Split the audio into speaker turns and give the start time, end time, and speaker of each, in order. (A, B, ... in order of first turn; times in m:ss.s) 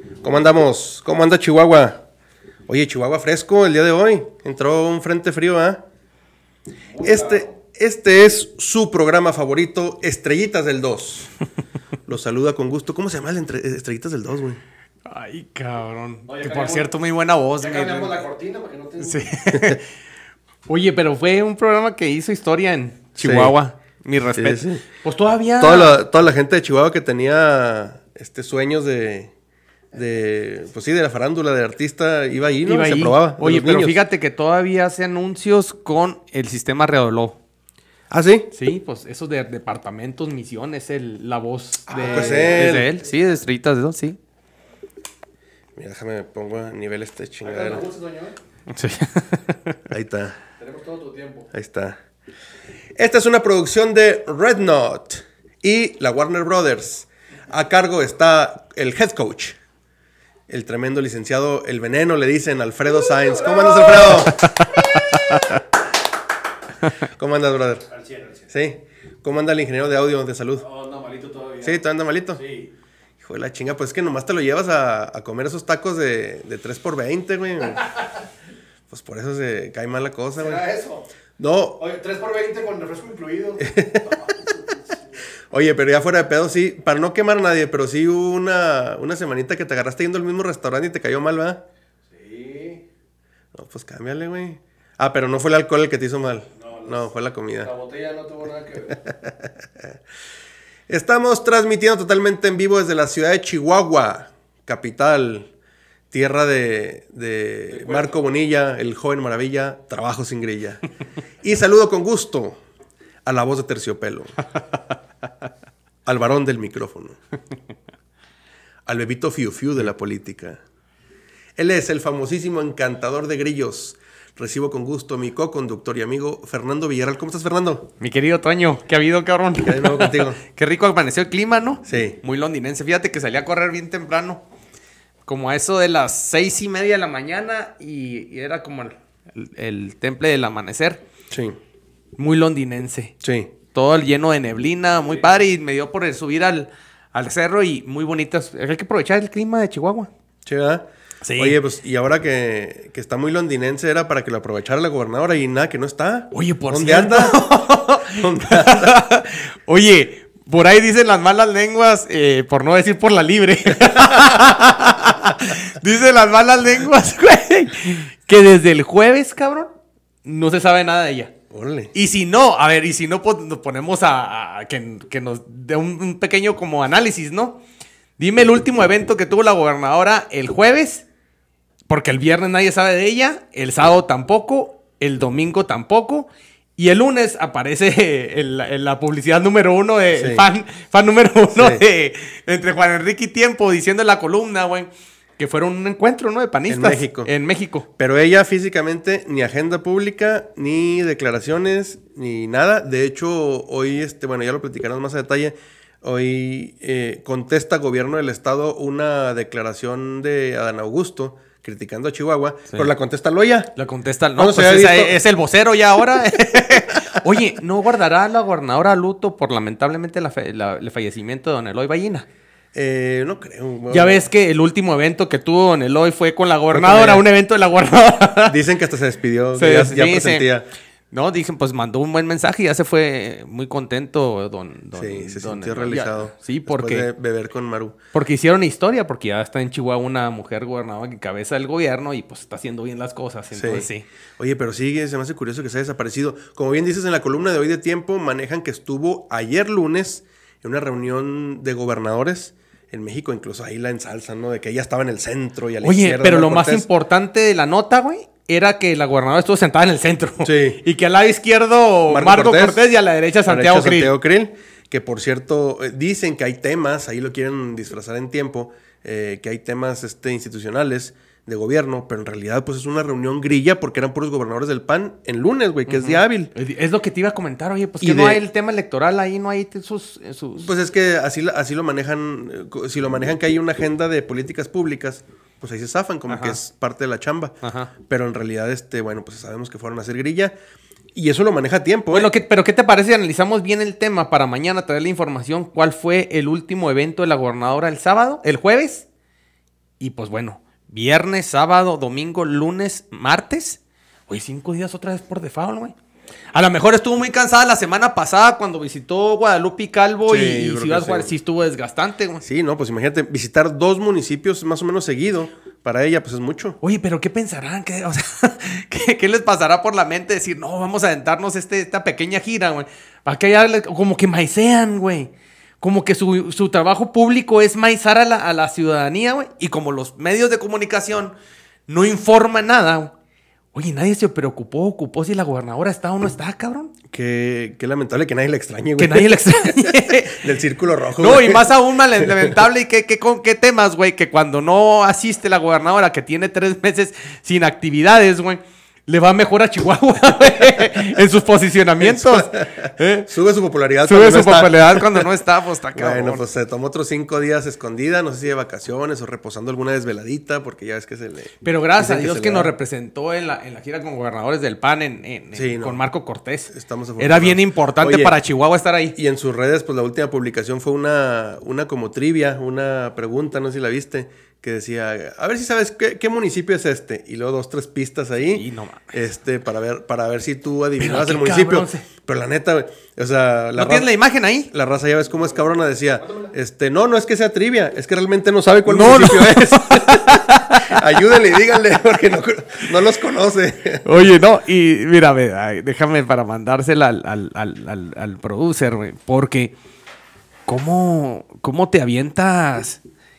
0:00.2-0:02.0 A
0:02.7-0:05.8 A
0:06.9-0:07.5 B
0:07.0-0:11.3 A
0:12.1-0:14.6 A
0:15.1-0:18.1 C
0:16.3-0:16.9 B
0:17.6-0:19.2 B
0:19.0-0:19.9 C
0:19.5-0:19.8 A
0:20.7-0:26.0 C
0:23.2-0:23.5 A
0:24.3-0:24.8 A
0:25.6-0:29.3 A
0:29.9-0:34.0 A
0:32.6-0:37.4 C
0:38.1-0:38.5 A
0:38.5-0:44.2 C
0:41.9-0:42.8 B
0:42.0-0:42.9 A
0:45.8-0:47.8 A
0:47.4-0:48.4 B
0:48.7-0:49.8 C
0:49.9-0:50.4 A
0:50.6-0:51.5 B
0:51.5-0:52.0 A
0:53.0-0:59.6 A
1:00.5-1:04.5 A
1:03.1-1:04.2 B
1:04.1-1:05.6 C
1:07.1-1:07.8 A
1:07.9-1:08.4 B
1:08.5-1:10.6 A
1:10.6-1:11.8 B
1:11.6-1:12.4 A
1:12.3-1:12.7 B
1:13.2-1:17.9 A
1:18.9-1:20.6 A
1:20.4-1:21.0 B
1:21.4-1:21.8 A
1:21.8-1:25.0 B
1:23.6-1:24.4 A
1:25.5-1:31.6 A
1:32.1-1:32.8 B
1:33.5-1:37.7 A
1:36.6-1:37.0 B
1:37.6-1:39.0 B
1:39.0-1:39.8 A
1:40.9-1:45.5 A
1:46.1-1:50.8 A
1:47.7-1:48.1 B
1:51.4-1:52.6 A
1:53.2-1:54.3 A
1:56.0-1:57.2 A
1:58.9-2:00.6 A
2:01.6-2:07.9 A
2:08.0-2:14.4 C
2:09.6-2:10.4 A
2:11.8-2:12.2 A
2:15.3-2:21.0 C
2:21.3-2:21.6 A
2:22.2-2:23.1 C
2:23.2-2:23.5 A
2:23.7-2:30.1 C
2:30.4-2:30.8 A
2:31.2-2:31.6 C
2:31.4-2:37.5 A
2:36.3-2:49.7 C
2:38.1-2:39.0 A
2:44.0-2:44.4 A
2:50.2-2:51.3 C
2:51.5-2:51.9 A
2:51.9-2:57.6 C
2:58.2-3:01.0 C
3:01.9-3:17.9 C
3:10.2-3:10.4 A
3:11.5-3:11.8 A
3:16.7-3:17.3 A
3:18.0-3:33.7 A
3:33.8-3:42.2 C
3:34.4-3:35.2 A
3:42.7-3:44.2 A
3:43.9-3:48.6 C
3:46.7-3:47.2 A
3:48.5-3:50.6 A
3:49.6-3:50.5 C
3:51.1-3:57.1 C
3:55.0-3:57.9 A
3:58.1-4:04.0 C
4:03.6-4:03.9 A
4:04.4-4:16.8 A
4:15.8-4:24.1 C
4:20.4-4:20.8 A
4:22.1-4:22.8 A
4:23.5-4:36.5 A
4:35.9-4:40.7 C
4:38.0-4:38.4 A
4:40.6-4:47.5 A
4:46.3-4:46.6 C
4:47.6-4:47.9 C
4:48.0-4:50.5 A
4:51.1-4:52.3 A
4:52.1-4:59.0 C
5:00.0-5:05.9 C
5:06.5-5:12.4 C
5:10.3-5:11.3 A
5:12.4-5:16.8 A
5:16.8-5:31.3 C
5:31.9-5:33.1 C
5:33.7-5:36.9 C
5:37.1-5:41.7 A
5:39.0-5:40.4 C
5:41.2-5:53.3 C
5:42.2-5:42.5 A
5:52.0-5:55.3 A
5:54.0-5:56.4 C
5:55.9-6:02.7 A
6:01.6-6:09.1 C
6:05.5-6:06.0 A
6:06.7-6:08.4 A
6:09.2-6:24.1 A
6:18.5-6:19.1 C
6:21.0-6:22.0 C
6:23.8-6:24.7 C
6:24.7-6:34.2 A
6:28.8-6:31.2 C
6:34.0-6:39.7 C
6:40.7-6:43.0 C